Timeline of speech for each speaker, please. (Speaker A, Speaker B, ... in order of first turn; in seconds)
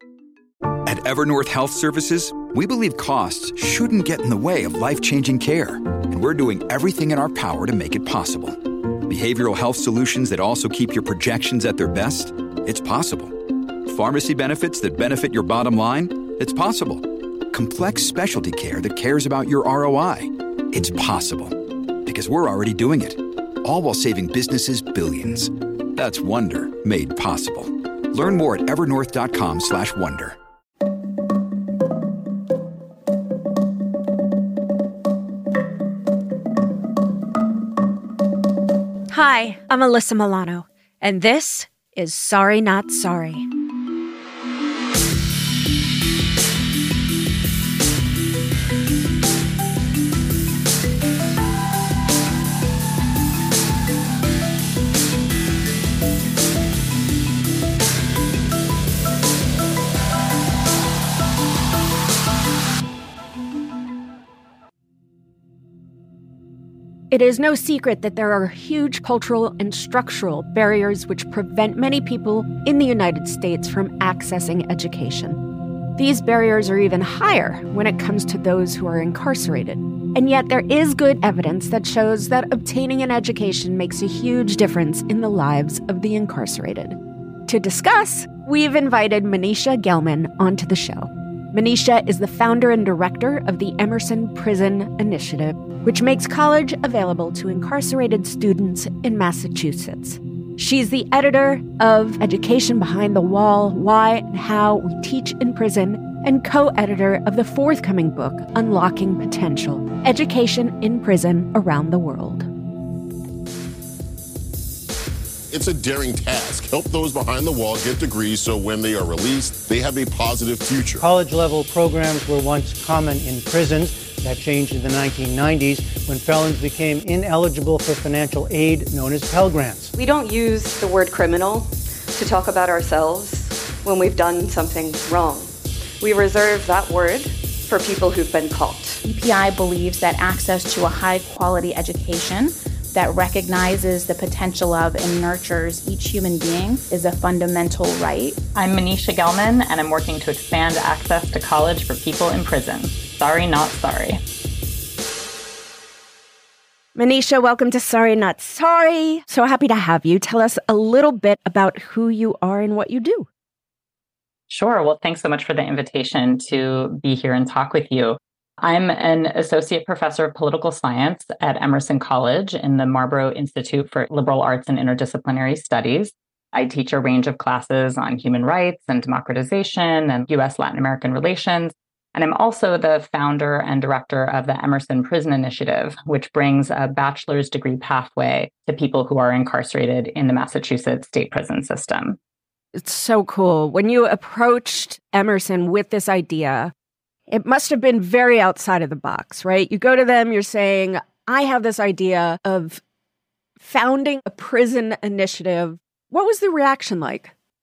Speaker A: 0.8-30.4
Speaker B: 39.1-43.5, 67.1-75.4, 75.9-112.5, 156.9-163.3, 192.7-196.7, 197.3-202.8, 203.6-207.3
Speaker C: 115.5-121.0
Speaker D: 121.0-129.9
Speaker E: 129.9-139.0
Speaker F: 139.0-148.4
Speaker G: 148.5-154.2, 164.5-192.2